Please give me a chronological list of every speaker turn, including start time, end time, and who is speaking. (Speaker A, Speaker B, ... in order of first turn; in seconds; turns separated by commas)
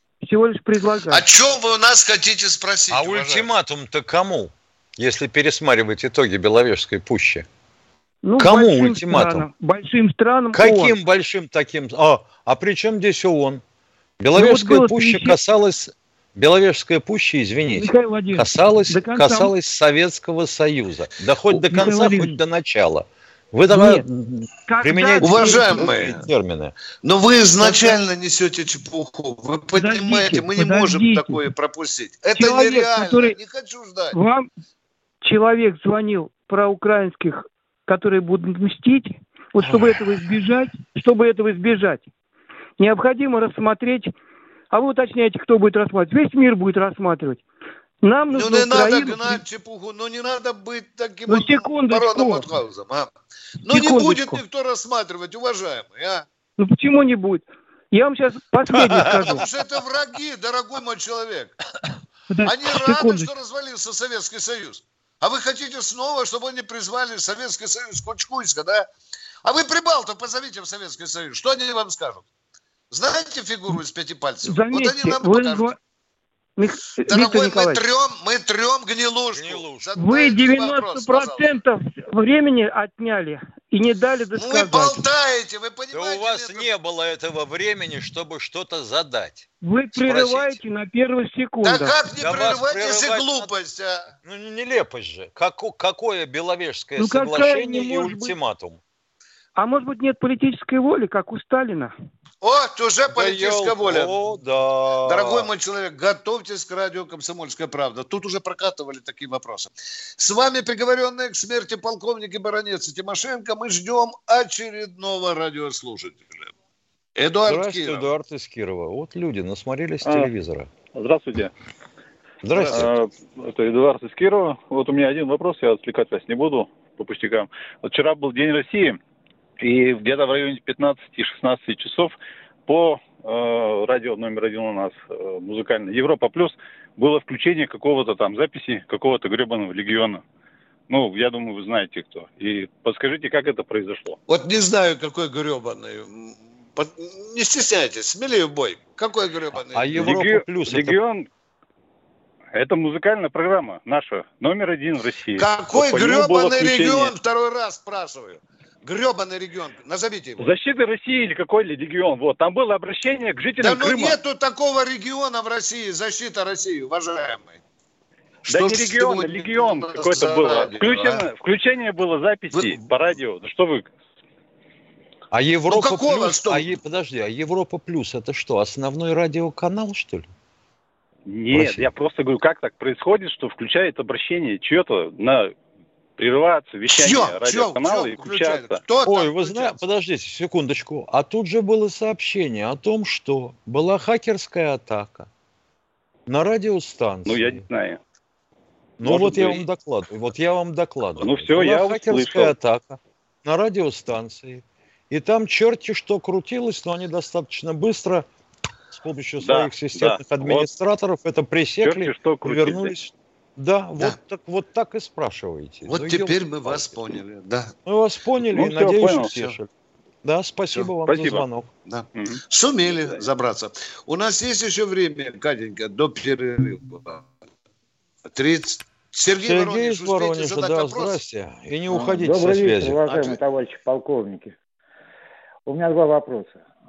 Speaker A: 0.2-1.2, Speaker B: 1.1-3.5, Speaker C: 2.9-7.5, Speaker A: 8.2-10.9, Speaker C: 8.4-9.4, Speaker C: 10.5-13.6, Speaker C: 14.2-26.7, Speaker A: 14.3-15.4, Speaker A: 17.8-19.5, Speaker A: 21.5-22.4, Speaker A: 23.7-24.0, Speaker A: 24.7-25.9, Speaker B: 25.2-26.2, Speaker B: 27.0-34.1, Speaker A: 27.6-27.9, Speaker A: 29.8-31.4, Speaker A: 32.4-33.3, Speaker A: 34.1-34.5, Speaker A: 35.2-42.1, Speaker A: 42.8-44.1, Speaker A: 44.7-47.4, Speaker A: 48.0-49.4, Speaker B: 48.3-53.1, Speaker A: 51.3-52.5, Speaker B: 53.6-56.2, Speaker A: 53.6-54.4, Speaker A: 56.6-59.5, Speaker B: 58.7-61.5, Speaker A: 62.3-63.3, Speaker B: 62.4-68.8, Speaker B: 69.4-72.2, Speaker B: 72.9-75.7, Speaker A: 74.4-75.8, Speaker A: 76.6-77.8, Speaker B: 77.1-81.5, Speaker C: 79.3-79.9, Speaker A: 80.0-85.0, Speaker B: 84.3-86.7, Speaker C: 85.9-90.6, Speaker A: 89.6-92.0, Speaker B: 91.6-94.0, Speaker C: 92.2-93.5, Speaker C: 94.2-98.8, Speaker A: 97.0-98.3, Speaker A: 99.5-101.9, Speaker B: 102.4-104.1, Speaker C: 103.1-105.5, Speaker B: 105.0-116.5, Speaker B: 117.2-118.1, Speaker C: 117.5-120.7, Speaker D: 120.0-120.3, Speaker D: 120.9-121.5, Speaker C: 122.4-122.9, Speaker D: 122.7-129.0, Speaker D: 129.6-132.1, Speaker D: 132.7-140.2, Speaker D: 140.9-144.2, Speaker B: 144.3-150.1, Speaker C: 149.7-151.0, Speaker D: 149.9-151.3, Speaker D: 152.5-157.1, Speaker B: 155.4-160.5, Speaker D: 160.4-164.2, Speaker B: 163.6-167.6, Speaker B: 168.5-171.2, Speaker D: 168.5-173.9, Speaker B: 172.5-172.8, Speaker C: 175.3-180.3, Speaker B: 175.7-176.7, Speaker D: 181.3-185.5, Speaker C: 181.5-181.9, Speaker D: 186.2-188.8, Speaker B: 186.9-189.8, Speaker C: 189.0-195.3, Speaker C: 196.3-197.6, Speaker D: 197.2-198.0, Speaker C: 199.0-208.3, Speaker D: 199.0-199.6, Speaker D: 201.2-202.5, Speaker C: 208.9-217.2, Speaker D: 209.4-210.7, Speaker D: 211.8-212.9, Speaker B: 215.8-217.7, Speaker C: 217.8-219.7, Speaker D: 218.4-219.3, Speaker C: 220.2-221.7, Speaker D: 221.0-221.4, Speaker B: 221.9-227.2, Speaker B: 228.3-231.2, Speaker C: 229.4-233.1, Speaker E: 231.9-234.5, Speaker B: 233.0-233.4, Speaker E: 235.7-236.6